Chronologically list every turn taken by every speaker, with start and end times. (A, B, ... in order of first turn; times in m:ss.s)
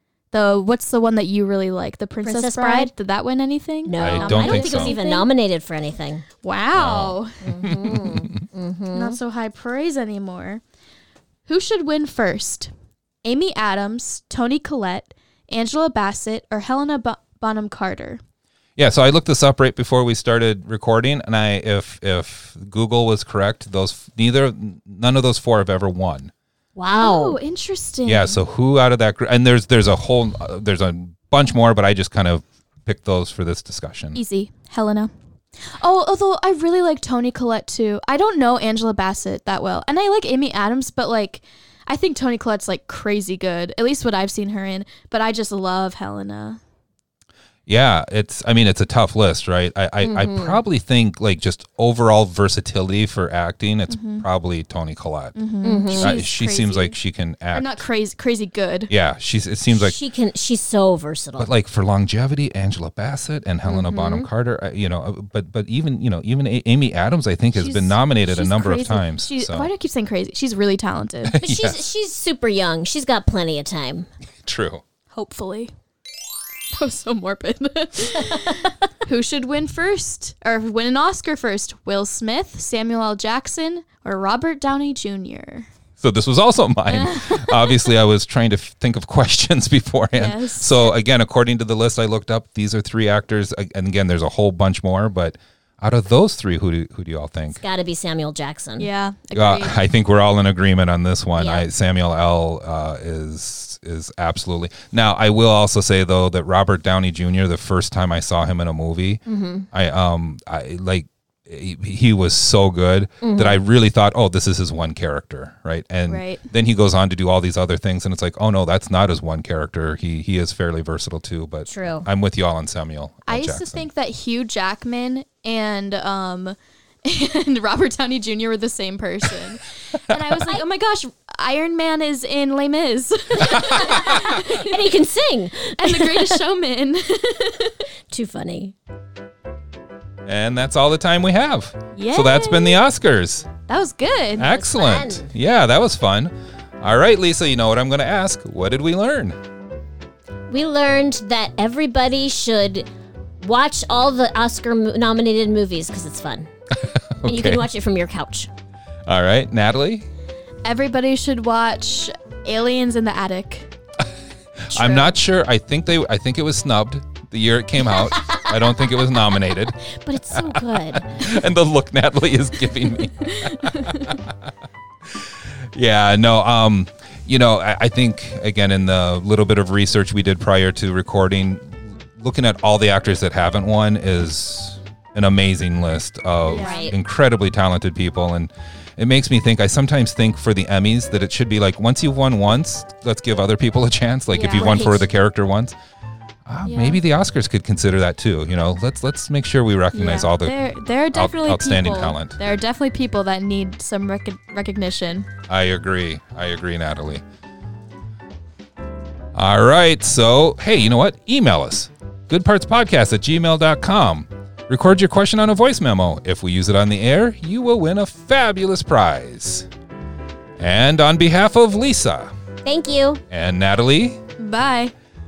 0:00.3-0:05.3 A
0:02.2-0:02.9 B
0:03.8-0:06.2 B
0:04.0-0:04.9 C
0:06.4-0:07.3 A
0:06.7-0:08.4 C
0:07.4-0:09.2 B
0:08.9-0:10.6 A
0:11.5-0:12.7 A
0:13.2-0:18.2 A
0:18.8-0:26.3 C
0:26.8-0:27.4 B
0:27.0-0:28.4 A
0:28.0-0:34.2 C
0:34.1-0:35.1 A
0:35.7-0:46.6 A
0:47.7-0:55.4 C
0:50.0-0:50.6 B
0:53.9-0:54.2 A
0:55.4-0:57.0 A
0:55.6-0:56.1 B
0:55.9-0:57.8 C
0:57.5-0:58.9 A
0:58.9-1:00.0 C
0:59.7-1:01.5 B
1:01.4-1:09.7 C
1:03.6-1:04.3 B
1:07.5-1:11.3 A
1:11.2-1:11.8 C
1:11.4-1:14.1 B
1:14.4-1:14.8 C
1:15.1-1:15.7 A
1:16.7-1:25.7 A
1:26.0-1:37.6 C
1:26.9-1:27.8 A
1:30.1-1:30.9 A
1:37.5-1:38.9 B
1:38.8-1:39.8 A
1:39.3-2:03.8 C
1:41.4-1:41.7 B
1:49.3-1:49.7 B
1:53.2-1:53.6 B
1:56.1-1:56.4 A
2:01.6-2:02.1 B
2:03.3-2:14.9 A
2:10.1-2:10.4 C
2:13.5-2:14.1 C
2:13.5-2:16.4 B
2:15.8-2:17.8 A
2:18.1-2:18.7 B
2:20.2-2:23.5 C
2:21.9-2:22.8 A
2:23.7-2:24.5 A
2:24.4-2:29.4 C
2:24.4-2:25.3 B
2:30.5-2:32.9 B
2:33.4-2:36.5 B
2:36.7-2:37.6 C
2:37.2-2:38.5 B
2:39.0-2:40.1 C
2:40.6-2:43.7 A
2:44.7-2:49.8 C
2:44.7-2:45.1 A
2:48.2-2:48.5 B
2:49.9-2:51.1 B
2:50.3-2:54.5 C
2:53.2-2:54.1 A
2:55.1-3:15.8 C
3:06.4-3:06.9 A
3:06.5-3:06.9 B
3:14.3-3:15.0 B
3:14.5-3:15.0 A
3:16.4-3:20.6 C
3:16.6-3:17.0 A
3:19.9-3:25.3 A
3:21.1-3:22.4 C
3:25.5-3:27.2 C
3:29.3-3:39.7 C
3:40.6-3:42.3 C
3:42.6-3:43.2 B
3:43.3-3:44.2 C
3:44.4-3:44.9 A